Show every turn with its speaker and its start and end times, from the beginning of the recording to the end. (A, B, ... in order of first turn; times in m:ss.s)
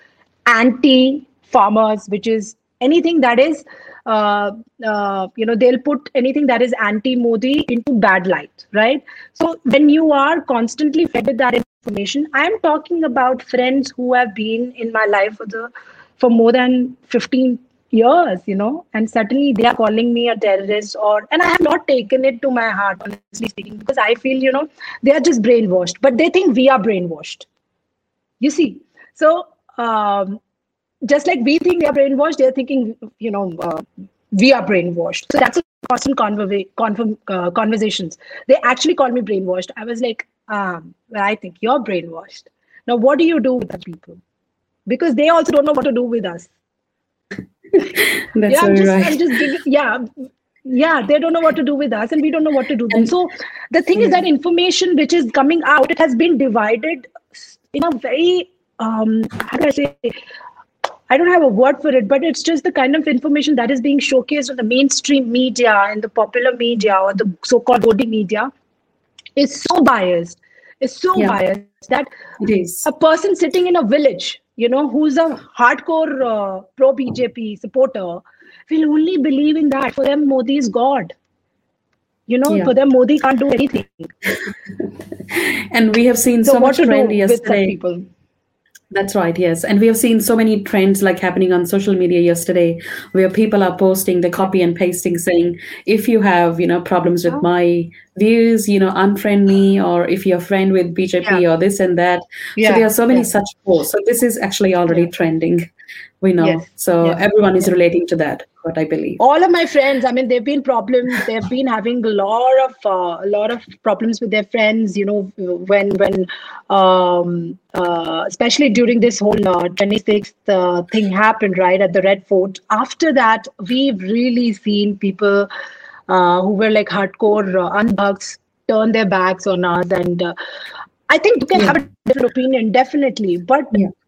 0:00.4-0:27.4 A
0:28.4-0:30.4 A
0:31.0-0:44.2 A
0:44.9-0:46.5 A
0:47.9-0:49.3 B
0:48.5-0:50.1 A
0:50.6-1:00.2 A
1:01.1-1:08.5 A
1:09.4-1:12.1 A
1:12.4-1:12.8 B
1:12.8-1:21.1 A
1:22.3-1:24.1 A
1:25.3-1:27.8 B
1:26.4-1:28.1 A
1:28.9-1:45.7 B
1:42.6-1:43.3 A
1:46.2-1:49.2 B
1:46.4-1:47.7 A
1:49.2-2:05.5 A
2:06.1-2:10.3 A
2:11.1-2:13.9 A